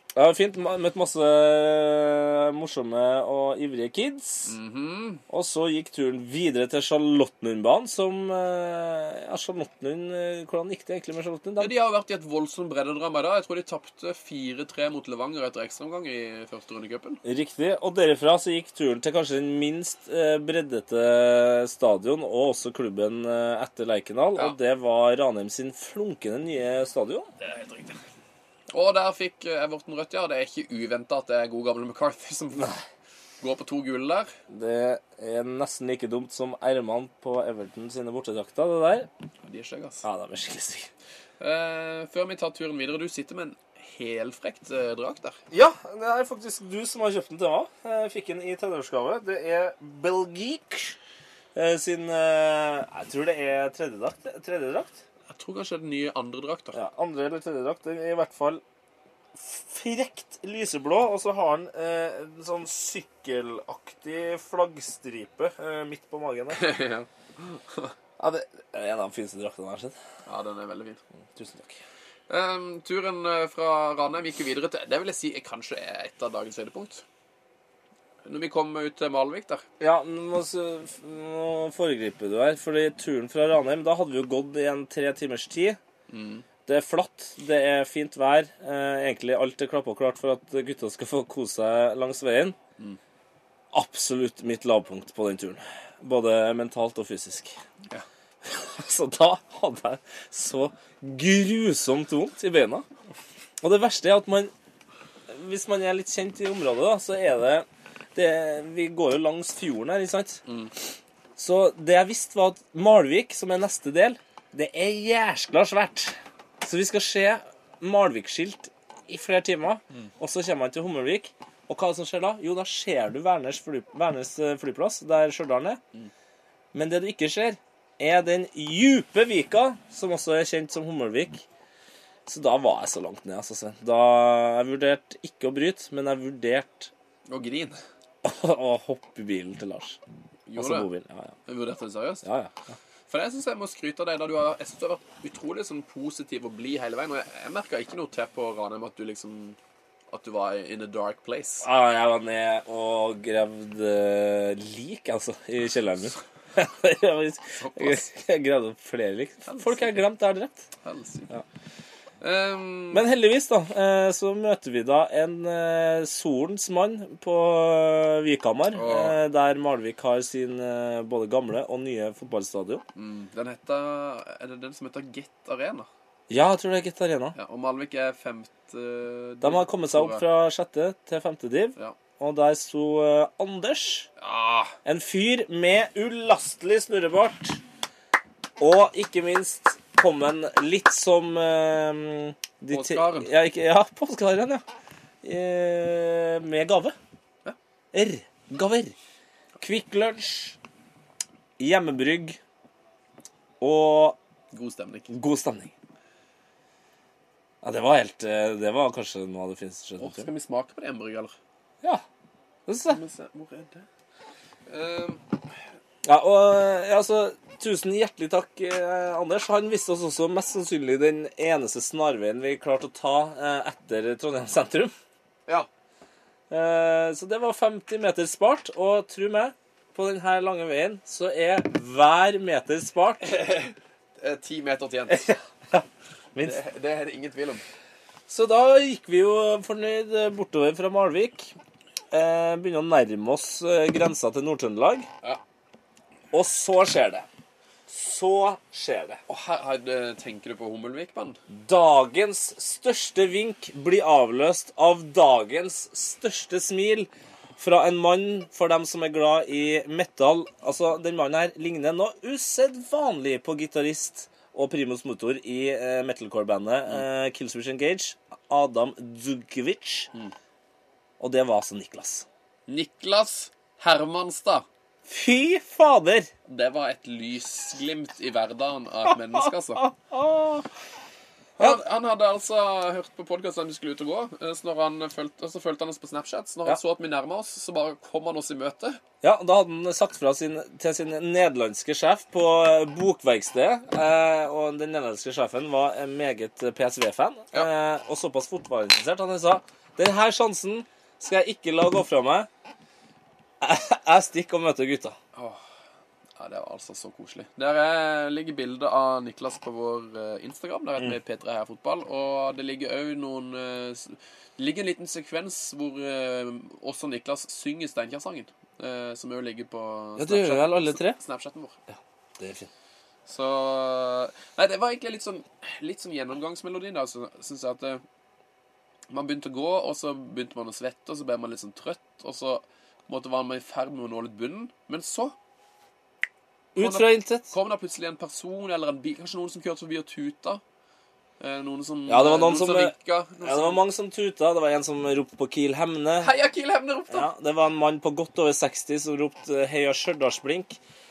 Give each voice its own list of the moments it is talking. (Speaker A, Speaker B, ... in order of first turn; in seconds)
Speaker A: 0.1-4.6, 5.3-11.7, 17.2-27.3, 32.6-32.8, 34.5-39.1, 40.0-40.9, 45.5-51.0, 51.5-55.0, 56.7-58.6, 59.4-66.7, 68.2-70.0, 71.3-71.8, 79.8-85.8, 86.7-92.6, 93.7-97.6, 98.4-102.9, 103.6-104.5, 105.3-110.4, 111.4-125.8, 126.7-131.4, 132.3-136.9, 138.2-140.0, 140.6-141.3, 142.2-142.7, 151.6-160.7, 162.9-172.8, 176.3-177.4, 179.4-184.1, 184.8-187.6, 188.6-194.6, 195.2-197.0, 197.9-199.0, 199.6-200.6, 201.6-202.4, 203.6-204.2, 205.1-205.7, 207.6-210.3, 212.7-213.0, 216.1-224.9, 226.5-233.4, 235.1-236.6, 238.3-241.5, 242.1-245.1, 246.3-247.3, 247.9-249.2, 251.5-270.1, 271.2-272.3, 275.1-276.3, 279.3-280.7, 289.2-302.5, 303.6-305.2, 320.2-321.2, 321.9-322.7, 336.8-337.5, 342.1-346.3, 347.1-350.8
Speaker B: 4.5-5.2, 11.6-17.2, 27.4-28.0, 28.7-32.7, 33.4-34.3, 39.4-40.0, 41.4-45.4, 55.3-56.8, 66.5-67.9, 70.3-71.0, 72.3-77.0, 78.2-79.6, 86.1-86.5, 110.5-110.7, 137.3-137.8, 140.5-140.9, 141.5-142.2, 143.1-149.6, 150.1-151.7, 157.6-158.1, 159.5-159.9, 160.8-161.3, 162.2-163.0, 168.8-169.2, 173.0-175.9, 177.4-180.2, 184.2-184.8, 192.7-193.3, 204.5-205.1, 210.0-211.3, 212.9-213.8, 214.7-215.2, 233.2-235.2, 236.4-237.6, 249.3-251.4, 272.7-274.7, 276.5-279.8, 281.6-289.0, 305.4-305.6, 306.4-321.8, 323.3-328.0, 329.1-335.4, 336.8-340.6, 341.4-343.8, 346.2-347.3